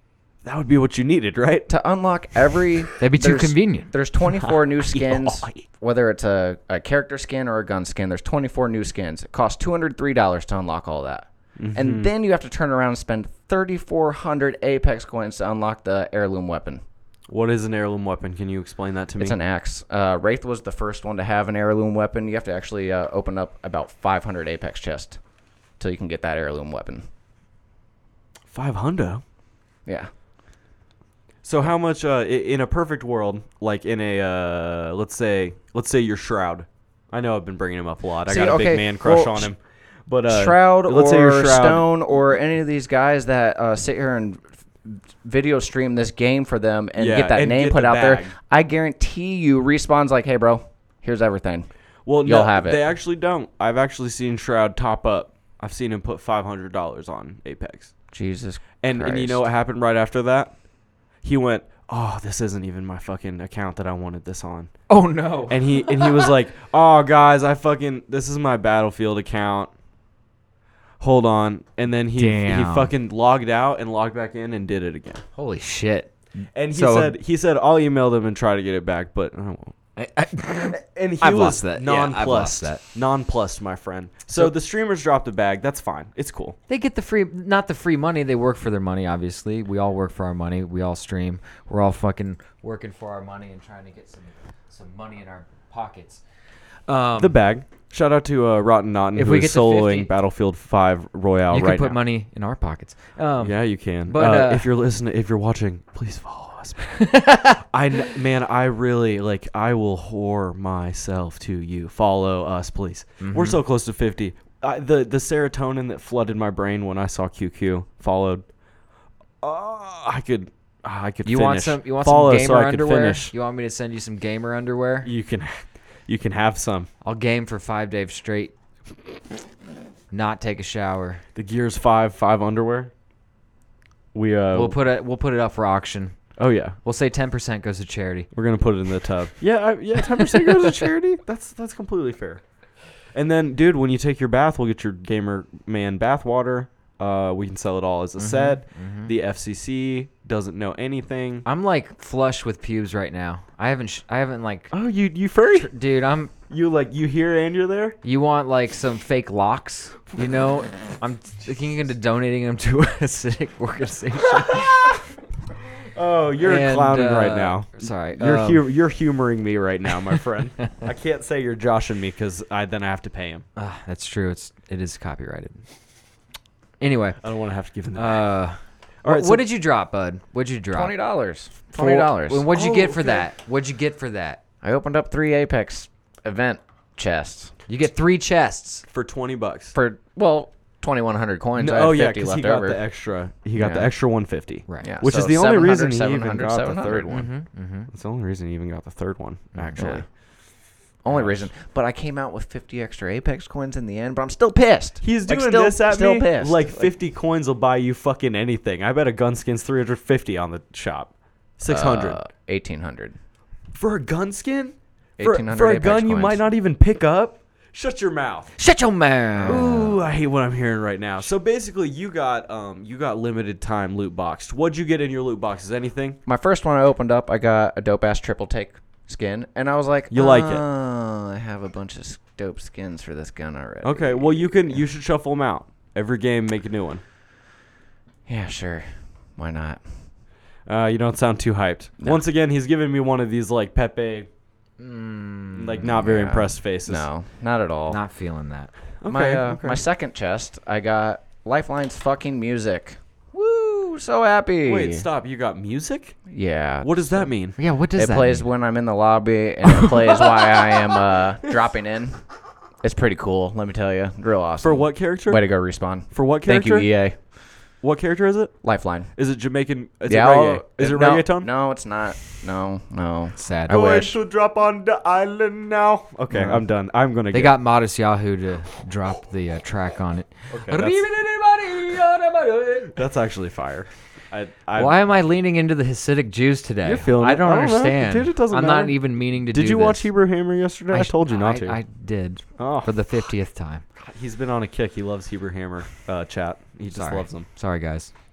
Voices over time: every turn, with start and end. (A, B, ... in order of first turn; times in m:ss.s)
0:00.4-0:01.7 A
0:01.7-0:16.8 B
0:03.0-0:03.9 C
0:04.4-0:05.6 A
0:11.6-0:12.1 A
0:17.3-0:19.4 A
0:19.2-0:25.2 B
0:25.8-0:27.1 B
0:28.5-0:29.2 A
0:31.4-0:41.9 A
0:38.3-0:39.5 B
0:40.3-0:51.7 B
0:47.0-0:48.3 A
0:52.1-0:57.9 A
0:52.2-0:52.8 B
0:58.1-0:59.4 B
0:58.8-1:00.5 A
1:01.2-1:04.7 A
1:04.9-1:06.3 C
1:05.5-1:09.7 A
1:11.0-1:15.2 A
1:12.2-1:12.9 C
1:15.4-1:17.2 C
1:16.6-1:19.8 A
1:20.0-1:22.8 C
1:20.7-1:26.6 A
1:26.7-1:36.2 C
1:36.9-1:37.4 C
1:37.2-1:42.0 A
1:39.2-1:40.1 C
1:41.5-1:44.7 C
1:43.4-1:47.0 A
1:46.9-1:47.6 C
1:47.6-1:58.4 A
1:53.2-1:53.6 C
1:59.4-2:03.3 A
2:01.2-2:05.1 C
2:05.0-2:06.9 A
2:07.0-2:08.5 C
2:10.1-2:11.2 C
2:11.4-2:12.9 A
2:14.1-2:14.8 A
2:14.5-2:16.2 C
2:16.4-2:16.8 A
2:16.8-2:18.3 C
2:18.3-2:22.4 A
2:23.1-2:31.4 A
2:28.2-2:29.1 C
2:31.4-2:34.7 C
2:34.7-2:35.7 A
2:35.6-2:36.3 C
2:36.5-2:38.0 A
2:38.0-2:44.8 C
2:44.3-2:45.0 A
2:45.9-2:53.5 A
2:46.4-2:48.6 C
2:53.6-2:55.6 C
2:56.8-2:57.2 C
2:57.2-2:58.3 A
2:58.0-3:00.9 C
2:59.0-2:59.4 A
3:00.7-3:02.6 B
3:01.7-3:04.4 C
3:02.5-3:03.2 A
3:04.6-3:07.5 B
3:07.7-3:08.8 C
3:08.9-3:09.8 A
3:09.7-3:12.8 B
3:11.6-3:17.3 A
3:13.6-3:13.9 B
3:14.8-3:17.1 B
3:17.1-3:17.9 C
3:17.9-3:20.0 A
3:19.6-3:20.0 C
3:19.8-3:20.0 B
3:21.0-3:26.9 B
3:21.1-3:21.4 A
3:25.0-3:32.2 A
3:31.6-3:33.2 B
3:33.7-3:38.5 A
3:35.2-3:36.4 B
3:38.6-3:40.0 C
3:39.4-3:46.2 A
3:46.3-3:54.6 B
3:50.1-3:50.6 A
3:53.8-3:57.0 A
3:58.3-3:59.8 B
4:00.7-4:04.3 A
4:04.8-4:05.8 C
4:05.6-4:07.1 A
4:05.8-4:08.0 B
4:07.9-4:08.7 C
4:09.0-4:09.8 A
4:09.1-4:15.1 B
4:14.7-4:16.2 A
4:16.3-4:17.3 B
4:16.8-4:17.6 A
4:17.6-4:18.5 C
4:18.0-4:22.2 B
4:19.7-4:20.3 C
4:22.8-4:27.2 B
4:24.6-4:25.4 A
4:26.1-4:26.9 A
4:27.8-4:28.6 A
4:28.6-4:29.1 B
4:29.1-4:31.5 A
4:30.1-4:34.2 B
4:33.4-4:33.8 C
4:33.7-4:37.6 A
4:36.3-4:36.6 B
4:37.3-4:43.0 C
4:40.5-4:41.0 A
4:42.9-4:45.0 A
4:44.8-4:50.1 C
4:46.8-4:51.8 A
4:50.9-4:53.8 C
4:52.6-4:53.0 A
4:54.0-4:57.5 A
4:56.9-4:58.1 C